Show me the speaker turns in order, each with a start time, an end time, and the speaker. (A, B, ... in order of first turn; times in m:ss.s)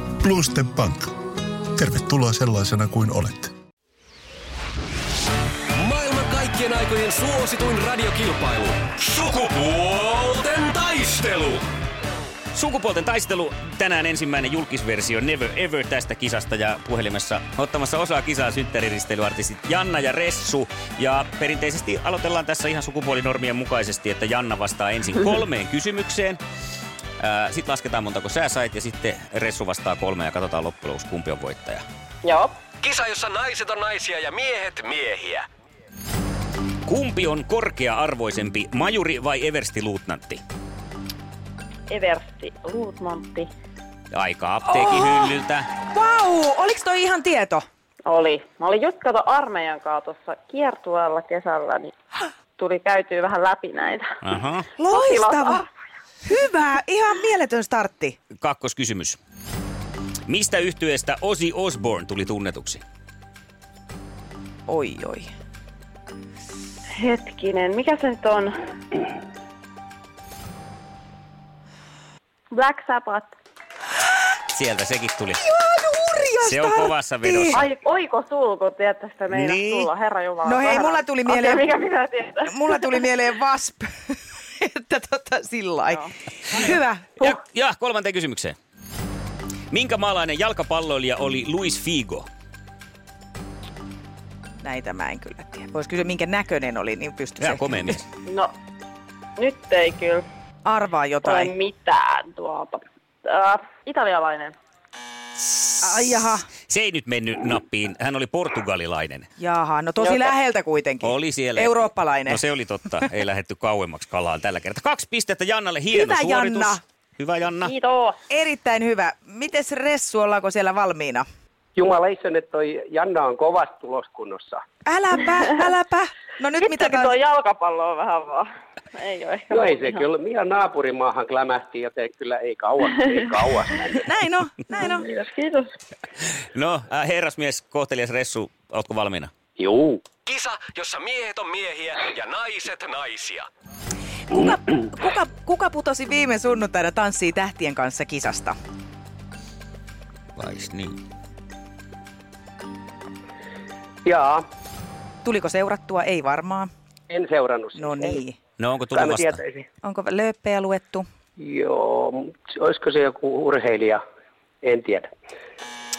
0:00.2-0:01.2 A
0:01.8-0:03.5 A
0:05.7-0:11.7 B
0:12.5-0:26.4 C
0:27.2-0:31.8 C
0:32.2-0:32.6 D
0:32.8-0:35.5 B
0:36.8-0:40.4 C
0:41.9-0:43.5 D
0:44.1-0:45.7 C
0:44.7-0:47.6 E
0:48.0-0:51.9 D
0:52.6-0:54.2 D
0:54.2-0:54.7 C
0:54.8-0:55.6 E
0:54.9-0:55.7 D
0:56.2-0:58.2 E
0:58.3-0:59.2 C
1:00.3-1:02.8 C
1:04.7-1:05.3 E
1:07.0-1:08.5 D
1:12.5-1:13.3 D
1:14.5-1:15.4 C
1:15.4-1:17.6 E
1:16.4-1:17.6 C
1:17.5-1:23.0 D
1:19.3-1:19.9 C
1:20.4-1:21.7 E
1:22.5-1:27.3 E
1:27.2-1:28.6 C
1:29.7-1:32.3 C
1:34.6-1:38.0 E
1:37.4-1:38.0 C
1:38.2-1:38.5 D
1:39.4-1:40.2 D
1:40.6-1:41.5 E
1:41.2-1:44.5 D
1:45.8-1:46.4 E
1:46.7-1:49.3 C
1:49.4-1:52.4 E
1:50.0-1:50.3 D
1:51.0-1:57.7 C
1:55.9-1:56.8 E
1:57.6-1:58.2 D
1:58.3-2:01.2 E
2:01.8-2:04.6 F
2:04.8-2:07.2 E
2:06.6-2:10.0 D
2:09.5-2:14.0 F
2:14.0-2:15.0 E
2:14.8-2:15.7 D
2:16.5-2:19.3 C
2:19.6-2:20.0 F
2:20.2-2:23.5 B
2:24.3-2:28.5 E
2:30.4-2:31.0 C
2:34.0-2:34.4 F
2:35.2-2:36.7 E
2:37.1-2:38.2 F
2:37.8-2:38.4 E
2:38.6-2:39.4 C
2:38.9-2:39.7 F
2:39.8-2:41.0 E
2:41.4-2:44.0 F
2:44.6-2:45.1 F